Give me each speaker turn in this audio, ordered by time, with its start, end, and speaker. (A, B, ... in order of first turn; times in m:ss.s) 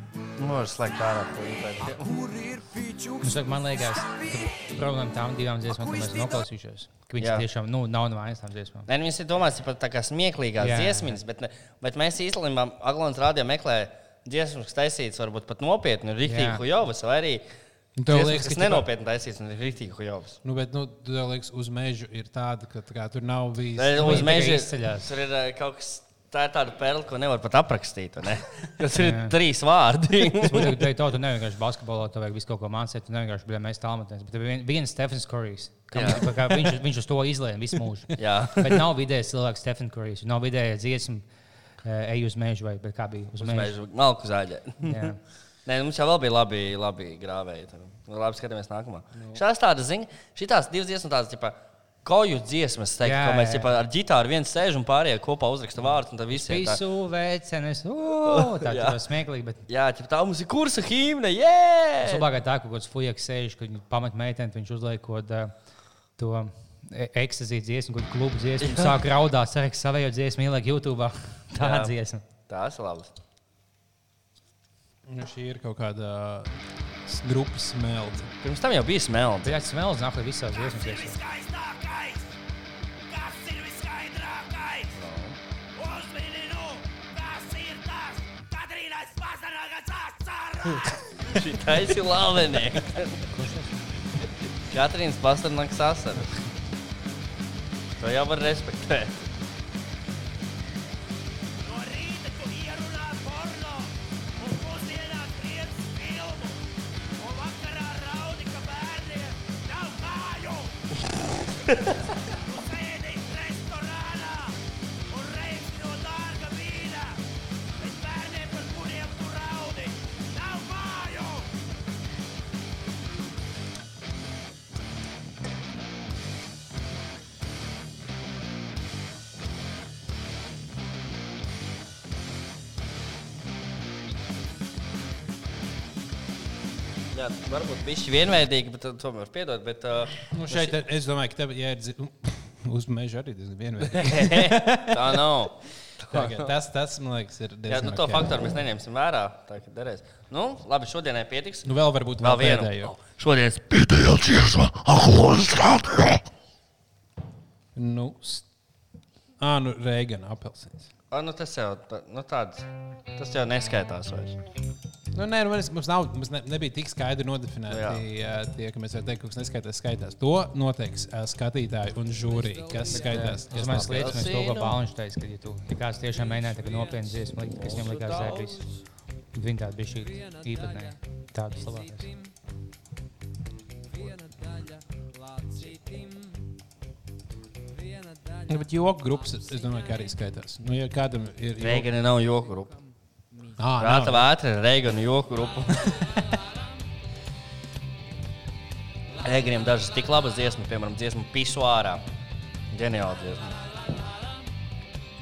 0:00.4-0:02.0 A
0:01.8-0:04.6 B
0:03.2-0:08.9 C
0:05.6-0:06.4 B
0:07.2-0:07.4 A
0:08.9-0:17.4 A
0:10.6-0:11.2 C
0:16.2-0:16.6 C
0:18.0-0:18.9 D
0:18.1-0:20.4 A
0:20.4-0:24.5 D
0:23.8-0:30.8 A
0:24.0-0:25.1 C
0:29.0-0:29.3 C
0:30.4-0:41.3 C
0:35.9-0:36.2 A
0:38.2-0:38.8 A
0:41.8-0:43.7 C
0:43.4-0:45.1 A
0:44.8-0:45.2 C
0:45.6-0:56.8 A
0:53.0-0:53.7 C
0:56.3-0:59.6 C
0:58.2-0:59.0 A
0:59.7-1:02.2 A
1:02.0-1:05.5 C
1:06.2-1:12.2 C
1:08.6-1:09.0 A
1:11.6-1:11.9 A
1:12.5-1:13.1 A
1:15.0-1:16.5 D
1:17.0-1:18.3 D
1:18.4-1:19.6 A
1:19.4-1:21.2 C
1:20.6-1:22.3 E
1:23.1-1:24.9 E
1:24.9-1:25.4 A
1:25.8-1:31.0 E
1:31.3-1:33.2 A
1:33.3-1:33.9 C
1:34.7-1:36.4 A
1:38.0-1:39.2 A
1:41.6-1:43.9 E
1:44.4-1:46.5 E
1:47.2-1:50.7 E
1:52.2-1:54.5 E
1:55.1-1:57.1 E
1:57.8-2:01.4 E
2:17.1-2:20.8 A
2:20.3-2:25.5 D
2:23.9-2:26.5 A
2:26.1-2:28.3 D
2:27.7-2:36.2 A
2:31.6-2:32.9 D
2:37.7-2:38.5 D
2:39.4-2:40.9 D
2:41.1-2:44.4 A
2:45.1-2:54.3 D
2:47.7-2:48.0 A
2:52.9-2:58.6 C
2:53.5-2:54.8 A
2:57.6-2:58.6 A
2:59.3-3:02.1 C
3:08.5-3:11.9 D
3:11.6-3:12.7 A
3:13.6-3:14.3 D
3:13.8-3:16.0 A
3:19.2-3:22.0 A
3:22.7-3:23.6 A